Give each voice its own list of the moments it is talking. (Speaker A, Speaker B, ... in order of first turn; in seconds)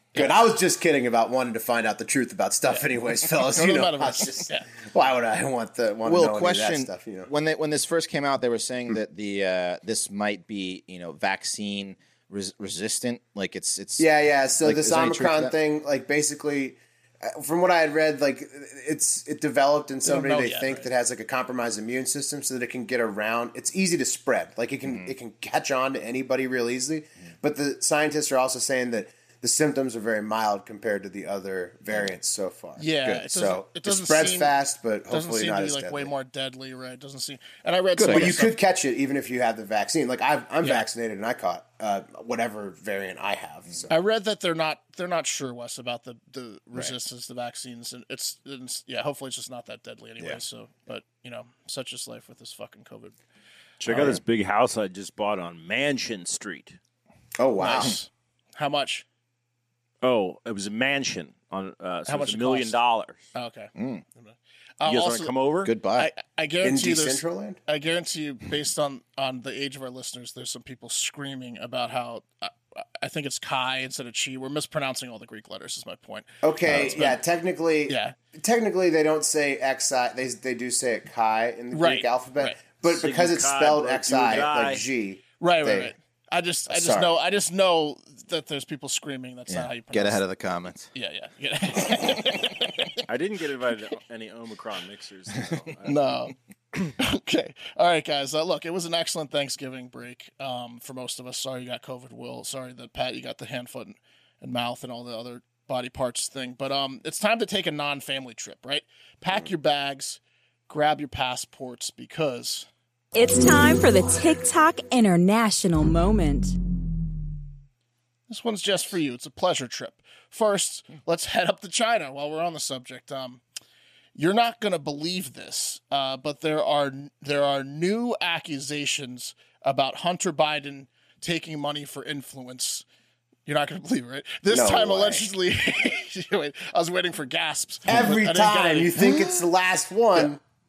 Speaker A: 0.1-7.3, 14.0-36.1, 38.1-43.9, 57.4-58.0, 66.6-67.6, 76.4-85.9, 86.7-87.1, 134.5-135.3, 137.9-140.4
Speaker B: 2.7-4.7, 20.1-20.9, 32.8-34.5, 35.1-38.6, 43.9-53.2, 57.6-59.0, 62.1-62.8, 63.4-65.3, 66.0-77.2, 77.9-78.2, 81.7-82.6, 85.4-90.2, 90.9-93.0, 95.8-112.7, 118.3-123.4, 124.2-132.8, 133.5-139.4
Speaker C: 6.0-15.6, 24.9-25.1, 38.0-38.4, 53.9-54.2, 63.8-64.0, 65.6-66.1, 76.7-77.0, 89.5-90.9
Speaker D: 53.8-56.8, 60.0-63.2, 64.8-65.7, 82.9-84.8, 93.1-96.3
Speaker E: 113.2-116.5